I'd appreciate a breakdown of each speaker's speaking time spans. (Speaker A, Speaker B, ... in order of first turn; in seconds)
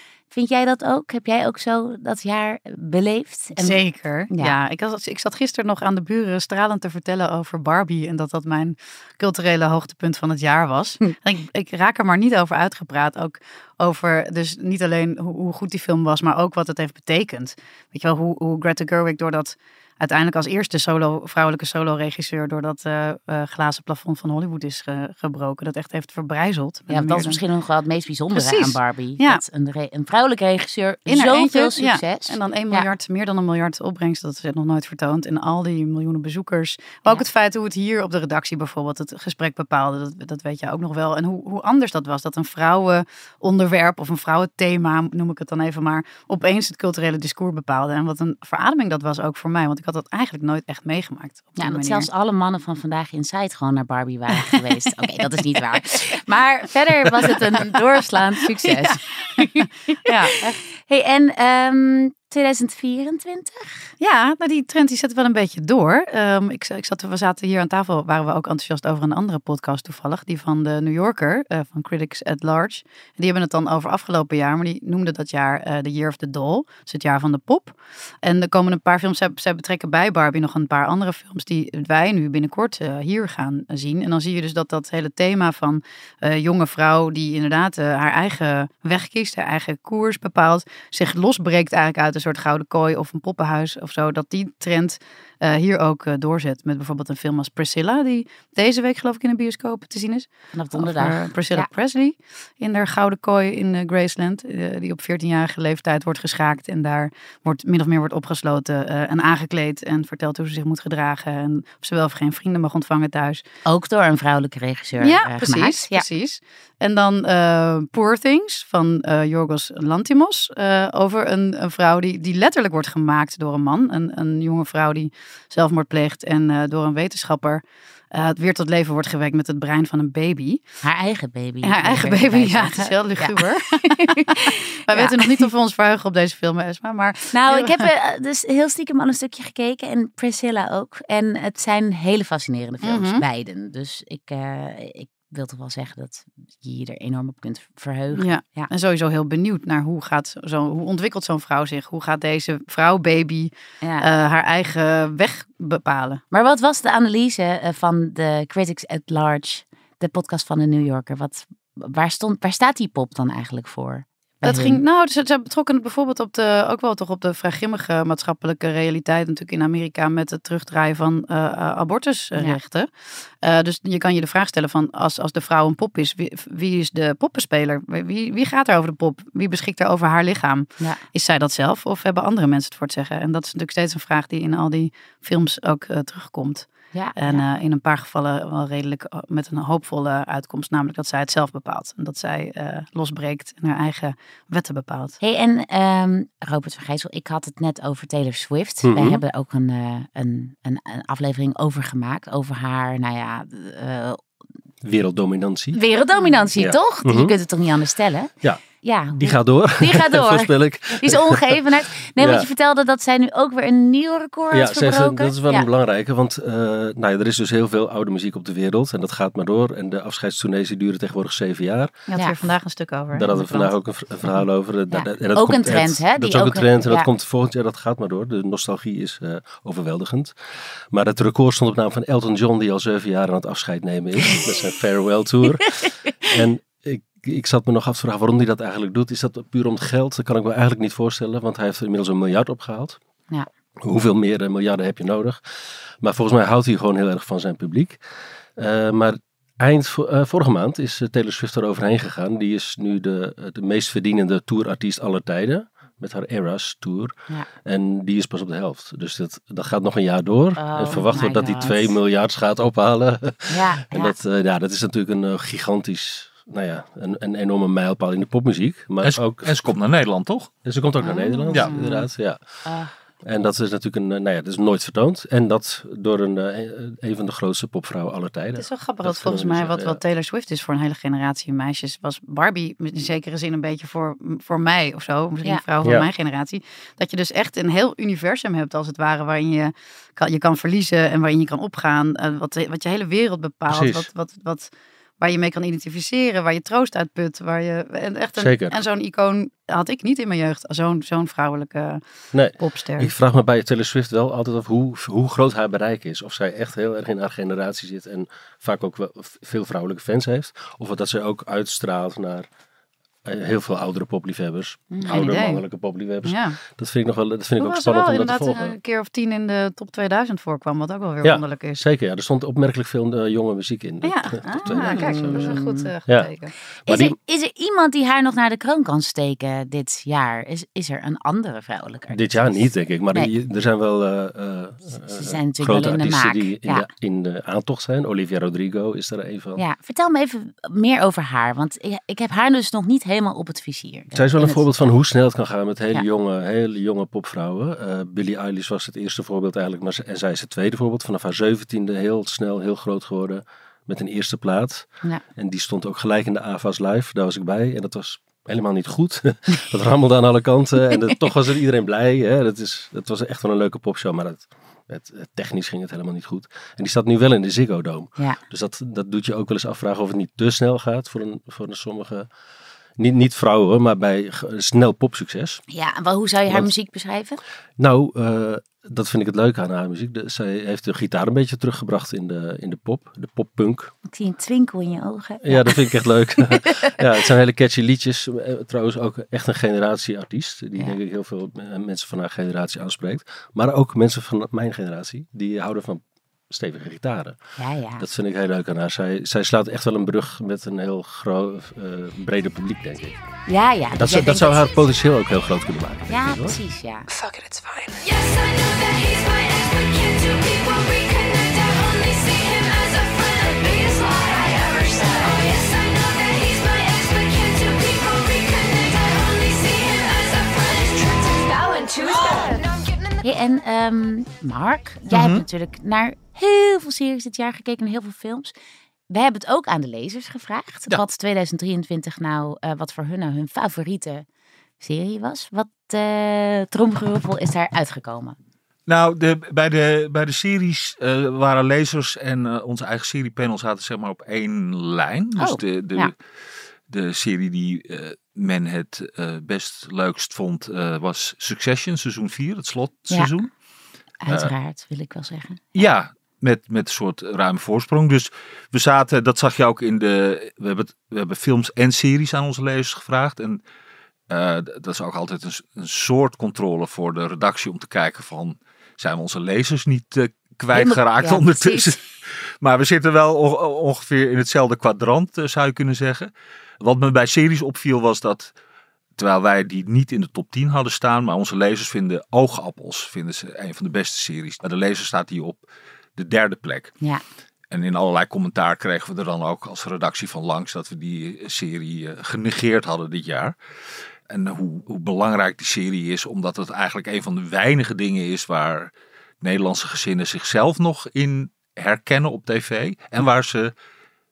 Speaker A: 0.3-4.6, 26.9-32.9, 51.6-63.9, 100.5-101.7, 113.7-116.0, 130.8-135.5, 137.3-148.7, 153.8-154.1, 156.3-164.8, 186.9-187.4, 195.2-204.2, 205.7-215.7, 224.9-227.1, 260.6-262.0, 263.5-264.1, 271.0-271.5, 272.7-272.9, 314.9-315.2, 324.7-325.9, 326.9-333.3, 335.1-336.9, 339.6-344.6, 375.7-377.4, 384.1-386.7, 397.6-398.1, 403.5-404.7, 406.1-407.1, 423.2-428.5, 429.1-434.2, 434.8-438.4, 445.4-446.1, 454.2-455.6, 470.7-472.0
Speaker B: 3.6-27.4, 28.3-29.4, 31.1-52.1, 55.0-56.0, 57.2-57.7, 58.6-60.6, 64.0-113.4, 115.0-130.6, 131.6-137.9, 142.8-143.2, 148.1-156.2, 164.4-195.2, 206.2-206.4, 222.1-223.7, 271.5-272.1, 278.6-302.0, 302.6-303.1, 315.0-315.6, 316.2-316.6, 317.6-321.8, 324.0-326.5
Speaker C: 198.8-199.2, 204.8-205.8, 206.6-207.4, 208.4-212.5, 214.5-221.9, 223.1-230.3, 230.9-243.0, 243.8-245.4, 246.0-248.0, 248.6-257.1, 257.6-269.7, 270.6-272.4, 273.2-280.0, 285.8-286.1, 293.7-294.1, 298.4-298.8, 302.3-312.5, 313.2-318.8, 321.2-326.3, 326.9-327.1, 332.1-339.6, 344.1-372.3, 373.0-375.6, 377.8-383.9, 385.4-397.4, 398.0-403.2, 403.9-406.6
Speaker D: 269.0-270.5, 425.1-425.4, 438.9-446.2, 446.9-453.5, 455.7-463.6, 464.3-476.3, 476.8-478.5, 479.2-485.6, 486.2-487.0, 487.7-493.6, 494.3-498.9, 499.4-503.7
Speaker E: 407.1-423.3